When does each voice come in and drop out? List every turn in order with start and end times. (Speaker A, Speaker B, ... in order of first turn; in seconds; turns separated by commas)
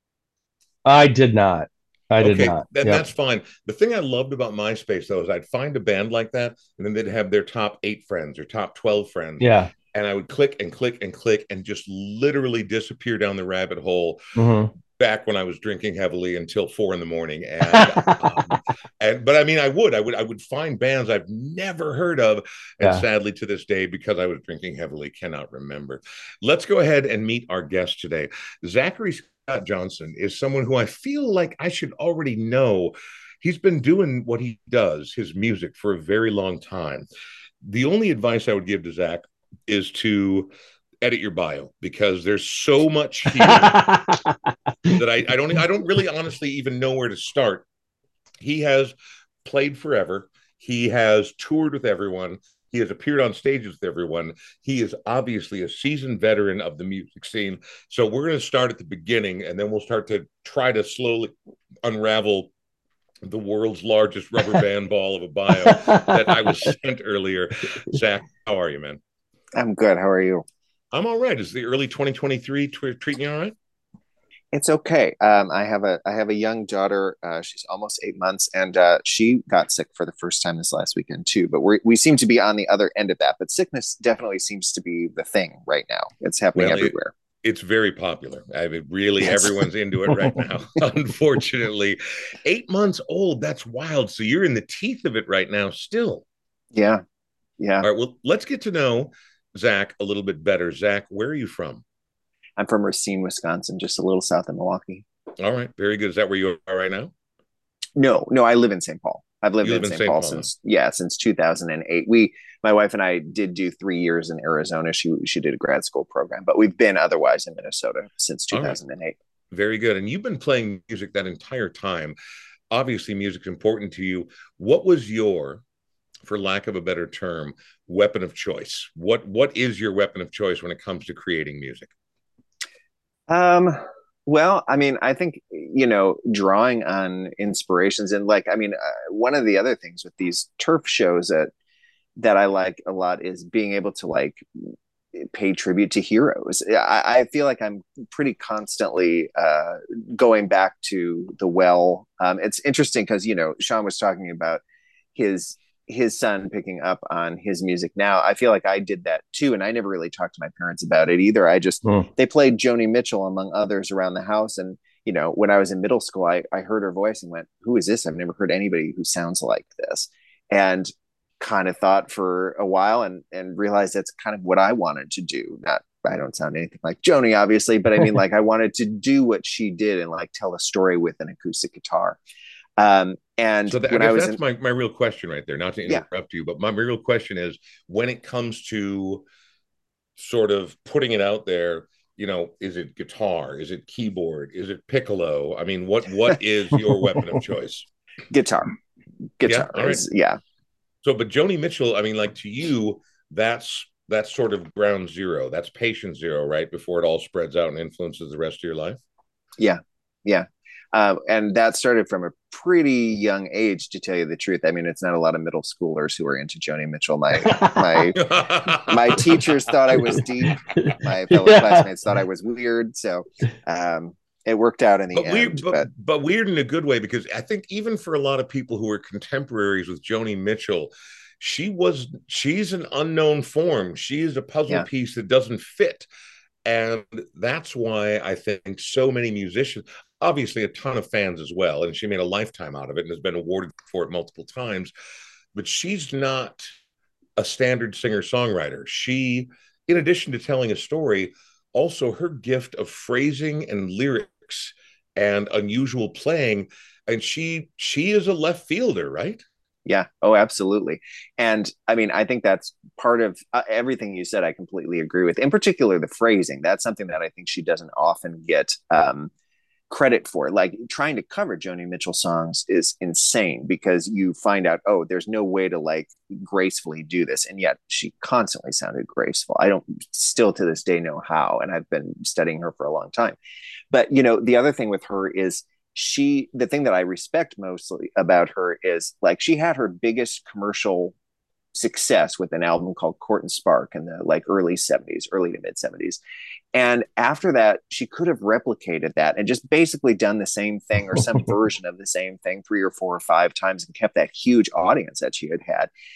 Speaker A: 0.8-3.0, Speaker B: 2.2-14.2, Speaker A: 9.4-9.7, Speaker A: 14.4-14.7, Speaker B: 14.9-37.1, Speaker A: 17.8-18.5, Speaker B: 37.6-43.9, Speaker A: 43.5-44.2, Speaker B: 44.9-47.7, Speaker B: 48.4-62.5, Speaker B: 63.2-69.0, Speaker A: 65.7-66.1, Speaker C: 69.5-70.5, Speaker B: 70.9-73.5, Speaker C: 74.5-87.1, Speaker B: 86.5-96.2, Speaker C: 89.2-89.6, Speaker C: 96.7-97.0, Speaker C: 97.6-97.9, Speaker B: 97.8-101.8, Speaker C: 102.6-105.0, Speaker B: 105.4-107.1, Speaker C: 108.0-119.2, Speaker B: 109.6-110.5, Speaker B: 119.5-122.2, Speaker B: 122.7-125.6, Speaker B: 126.3-131.9, Speaker C: 133.3-141.5, Speaker C: 142.2-154.6, Speaker C: 155.2-182.2, Speaker C: 182.8-184.4, Speaker B: 183.7-189.2, Speaker B: 190.2-197.9, Speaker C: 198.3-198.7, Speaker C: 199.4-200.4, Speaker B: 199.5-200.0, Speaker B: 201.0-209.0, Speaker C: 209.6-225.9, Speaker A: 217.5-217.8, Speaker B: 218.2-219.4, Speaker A: 220.1-221.9, Speaker B: 225.1-236.1, Speaker B: 236.7-244.9, Speaker B: 245.6-246.7, Speaker B: 247.4-259.4, Speaker C: 259.9-269.3, Speaker C: 269.9-283.4, Speaker C: 283.9-291.1, Speaker C: 291.7-296.2, Speaker C: 296.7-305.9